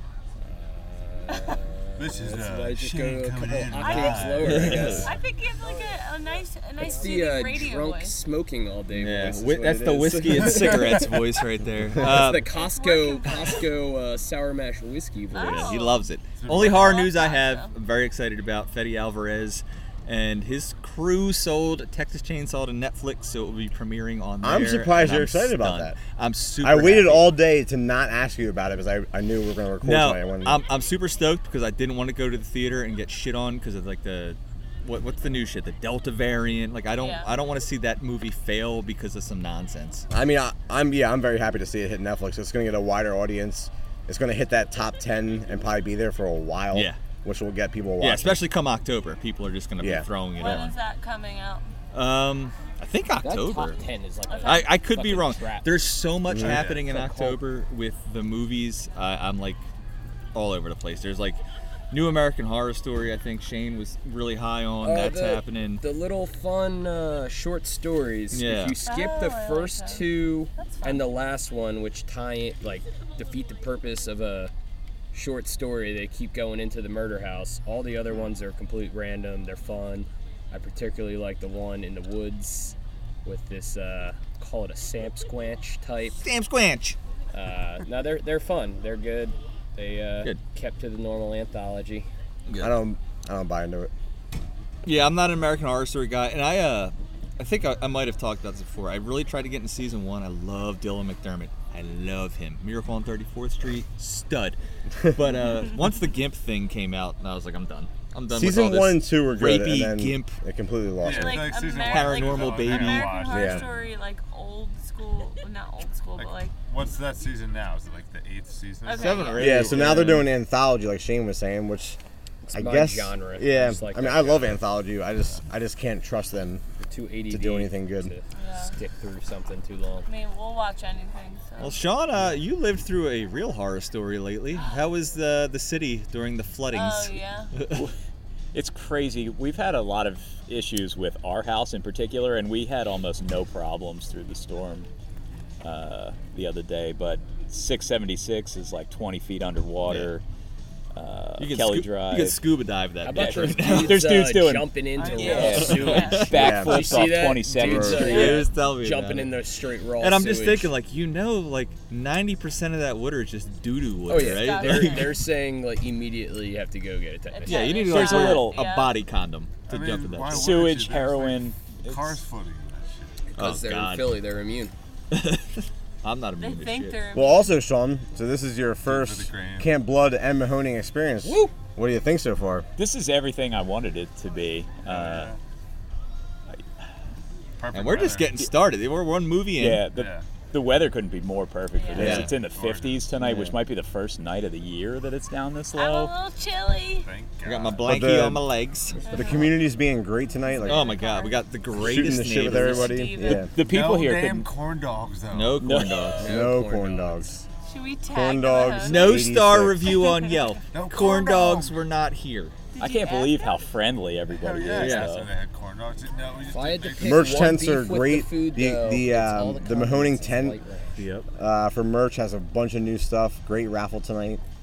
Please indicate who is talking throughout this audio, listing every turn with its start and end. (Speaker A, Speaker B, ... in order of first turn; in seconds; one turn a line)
Speaker A: 0.4-5.2
Speaker B: 2.0-5.0
Speaker C: 3.8-8.2
Speaker D: 4.4-5.1
Speaker A: 6.8-11.1
Speaker D: 8.9-12.5
Speaker A: 11.9-15.7
Speaker C: 12.5-13.7
Speaker C: 15.3-16.1
Speaker D: 15.3-27.4
Speaker B: 16.4-17.1
Speaker C: 16.6-17.7
Speaker E: 24.4-26.0
Speaker E: 26.6-30.6
Speaker D: 29.8-40.0
Speaker C: 37.0-37.3
Speaker E: 40.1-48.4
Speaker D: 46.7-47.0
Speaker D: 48.0-50.8
Speaker E: 49.8-50.1
Speaker C: 50.4-51.6
Speaker D: 51.9-53.8
Speaker A: 53.2-55.9
Speaker C: 54.3-54.7
Speaker D: 54.4-59.6
Speaker E: 56.3-56.6
Speaker B: 56.4-56.8
Speaker A: 56.6-57.4
Speaker D: 60.3-61.4
Speaker D: 61.9-65.8
Speaker A: 64.8-74.5
Speaker D: 68.3-68.8
Speaker C: 68.8-71.1
Speaker A: 75.1-86.2
Speaker D: 86.2-87.0
Speaker A: 87.3-92.1
Speaker D: 92.5-92.8
Speaker E: 92.6-93.9
Speaker D: 94.8-110.4
Speaker E: 108.3-111.5
Speaker B: 111.0-113.9
Speaker C: 111.0-116.5
Speaker D: 111.8-113.3
Speaker E: 113.3-113.6
Speaker B: 116.2-119.5
Speaker C: 118.8-119.7
Speaker D: 118.9-120.3
Speaker E: 119.4-122.0
Speaker A: 122.4-124.6
Speaker E: 122.5-126.6
Speaker A: 126.8-130.1
Speaker E: 127.3-128.1
Speaker C: 128.3-128.7
Speaker C: 130.1-131.9
Speaker D: 131.6-137.2
Speaker C: 136.7-137.5
Speaker F: 138.5-144.9
Speaker F: 145.6-150.2
Speaker F: 150.9-152.5
Speaker D: 151.4-154.1
Speaker A: 153.0-160.7
Speaker F: 153.1-158.4
Speaker B: 155.0-156.1
Speaker C: 155.0-156.3
Speaker D: 155.6-156.3
Speaker E: 156.3-157.0
Speaker E: 157.6-158.1
Speaker D: 157.7-159.3
Speaker D: 160.0-165.1
Speaker A: 164.1-167.7
Speaker C: 164.1-165.2
Speaker C: 167.3-169.0
Speaker D: 167.4-170.7
Speaker F: 167.8-168.8
Speaker B: 169.7-173.2
Speaker F: 170.3-172.2
Speaker A: 173.3-174.7
Speaker D: 173.4-174.2
Speaker D: 175.1-177.0
Speaker C: 176.4-177.5
Speaker E: 177.1-182.7
Speaker B: 178.8-179.7
Speaker F: 181.2-181.5
Speaker F: 182.8-185.3
Speaker B: 184.8-185.4
Speaker B: 187.6-188.4
Speaker D: 187.7-189.8
Speaker F: 189.5-196.1
Speaker B: 189.9-190.2
Speaker C: 191.7-192.2
Speaker E: 192.0-192.3
Speaker D: 192.0-192.3
Speaker B: 192.0-193.1
Speaker D: 193.2-193.5
Speaker C: 195.7-197.1
Speaker B: 197.0-198.0
Speaker D: 197.4-199.0
Speaker E: 197.8-198.4
Speaker C: 199.0-199.5
Speaker E: 199.1-200.9
Speaker C: 200.4-201.4
Speaker D: 200.7-203.1
Speaker E: 201.8-203.5
Speaker C: 202.4-203.5
Speaker F: 203.3-204.5
Speaker B: 203.6-205.7
Speaker D: 205.3-206.2
Speaker F: 205.6-206.1
Speaker A: 206.2-207.4
Speaker E: 206.2-207.4
Speaker C: 207.7-209.3
Speaker E: 208.1-209.9
Speaker D: 208.8-212.6
Speaker C: 209.9-211.5
Speaker B: 210.7-211.8
Speaker C: 212.8-213.6
Speaker F: 212.8-215.3
Speaker B: 214.3-217.6
Speaker D: 214.8-215.1
Speaker A: 216.5-220.9
Speaker E: 217.0-220.6
Speaker D: 221.0-221.3
Speaker E: 221.3-224.4